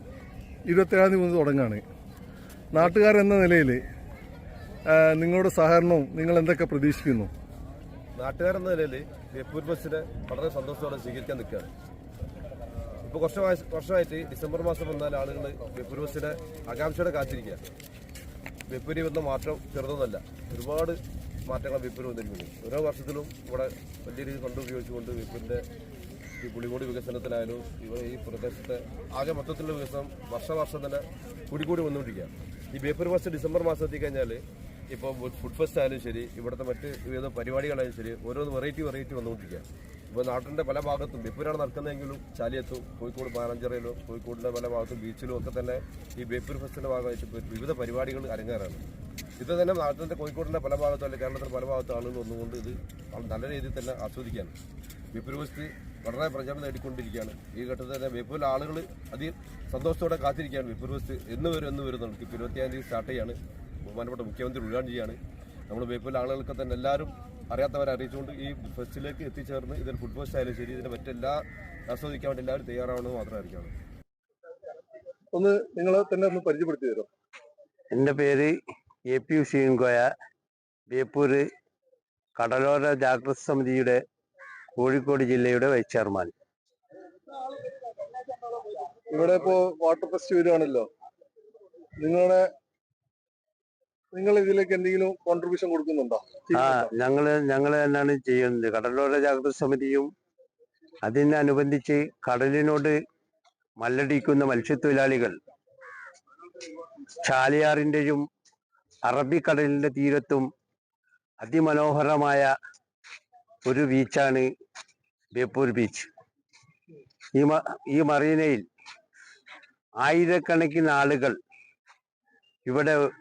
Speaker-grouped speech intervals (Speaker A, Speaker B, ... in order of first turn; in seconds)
Speaker A: 0.7-1.8, 2.7-3.8, 4.9-7.3, 75.3-77.1, 89.1-90.9, 92.0-92.5, 94.1-96.9
Speaker B: 8.2-11.7, 13.0-17.6, 18.7-25.7, 26.4-48.8, 49.4-54.5, 55.1-65.2, 65.7-73.7
Speaker C: 77.9-78.5, 79.1-80.1, 80.9-81.5, 82.4-84.0, 84.8-86.3, 96.5-100.1, 101.0-103.0, 103.8-105.3, 107.2-108.2, 109.0-110.5, 111.4-112.5, 113.7-114.5, 115.3-116.1, 117.4-118.6, 120.0-121.4, 122.7-123.0